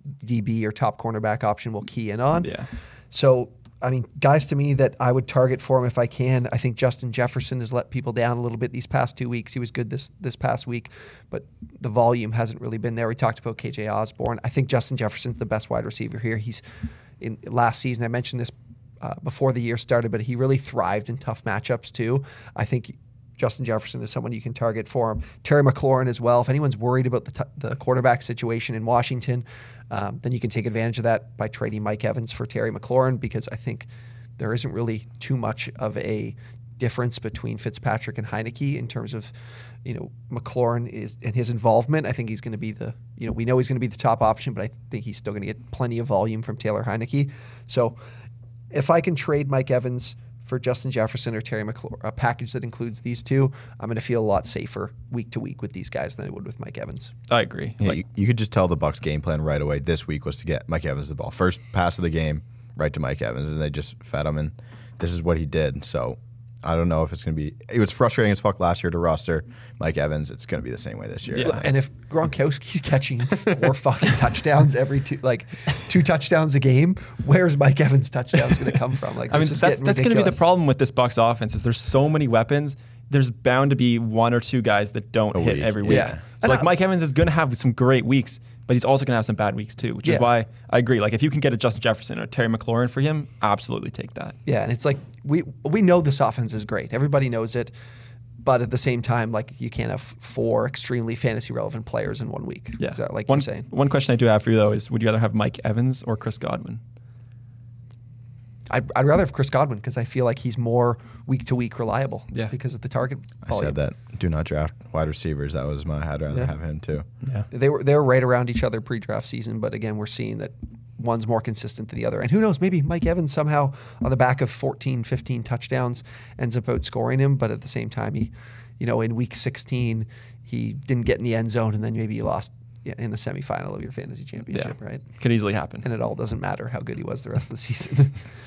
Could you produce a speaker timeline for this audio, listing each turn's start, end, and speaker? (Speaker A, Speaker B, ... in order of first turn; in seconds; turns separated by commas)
Speaker A: 0.2-16.6, Speaker B: 2.4-2.7, Speaker A: 17.2-39.3, Speaker A: 39.8-48.0, Speaker A: 48.7-57.1, Speaker B: 57.3-58.0, Speaker C: 57.8-71.7, Speaker B: 71.3-71.6, Speaker A: 71.4-80.5, Speaker B: 79.3-94.4, Speaker C: 85.3-86.2, Speaker A: 85.8-86.7, Speaker A: 94.4-97.7, Speaker A: 98.4-103.7, Speaker B: 102.8-106.8, Speaker A: 108.7-113.8, Speaker C: 113.4-117.0, Speaker B: 117.2-117.5, Speaker A: 117.5-135.0, Speaker B: 134.5-135.8, Speaker A: 135.8-138.2